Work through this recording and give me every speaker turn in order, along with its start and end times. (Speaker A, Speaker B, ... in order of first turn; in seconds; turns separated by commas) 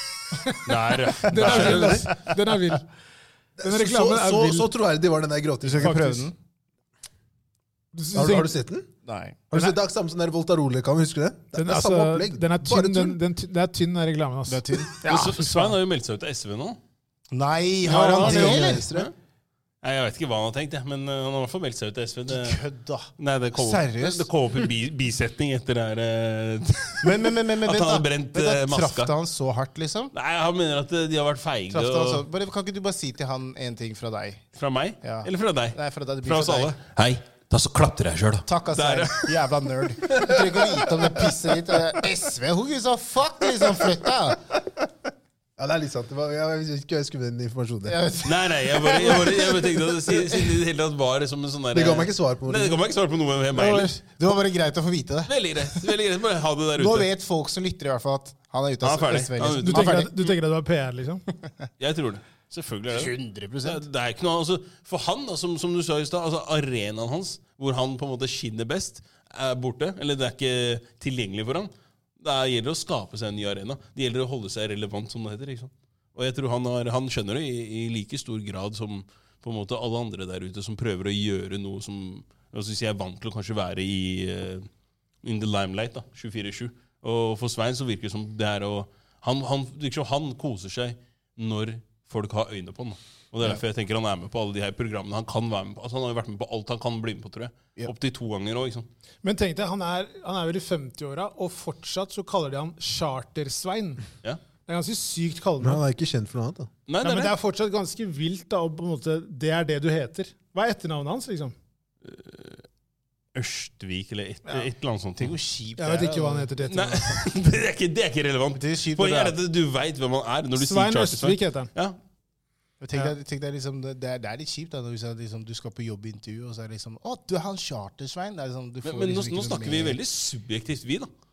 Speaker A: 0.3-2.9, Speaker B: 0.6-2.0, Speaker C: 1.4-2.2, Speaker D: 1.5-2.0, Speaker D: 3.6-6.2, Speaker A: 3.6-4.7, Speaker C: 5.6-6.3, Speaker A: 5.8-6.3, Speaker A: 7.9-8.5, Speaker D: 8.1-8.9, Speaker C: 9.1-9.4, Speaker D: 9.5-13.2, Speaker A: 11.5-15.8, Speaker C: 14.5-14.9, Speaker B: 15.0-16.8, Speaker C: 17.3-18.9, Speaker B: 17.9-19.1, Speaker D: 18.0-19.1, Speaker A: 18.1-18.4, Speaker B: 19.8-22.6, Speaker C: 22.3-24.3, Speaker B: 23.2-29.1, Speaker C: 27.0-30.1, Speaker B: 30.1-32.2, Speaker C: 31.7-34.4, Speaker B: 34.5-39.5, Speaker C: 35.0-36.7, Speaker C: 38.5-44.5, Speaker B: 40.1-40.8, Speaker D: 45.6-48.0, Speaker C: 47.9-50.5, Speaker B: 48.2-54.0, Speaker D: 51.7-52.8, Speaker C: 53.5-55.9, Speaker B: 55.3-57.1, Speaker C: 56.8-60.1, Speaker B: 58.8-60.1, Speaker A: 59.6-61.2, Speaker B: 61.8-84.7, Speaker C: 62.9-63.8, Speaker B: 85.2-98.9, Speaker A: 99.2-104.0, Speaker A: 104.7-105.8, Speaker D: 105.6-106.7, Speaker B: 106.9-107.3, Speaker A: 107.0-111.5, Speaker B: 112.0-112.6, Speaker B: 113.3-115.4, Speaker C: 115.2-116.5, Speaker A: 115.8-117.3, Speaker B: 116.6-122.0, Speaker C: 118.5-119.4, Speaker A: 120.6-121.7, Speaker C: 122.8-130.0, Speaker B: 128.8-131.1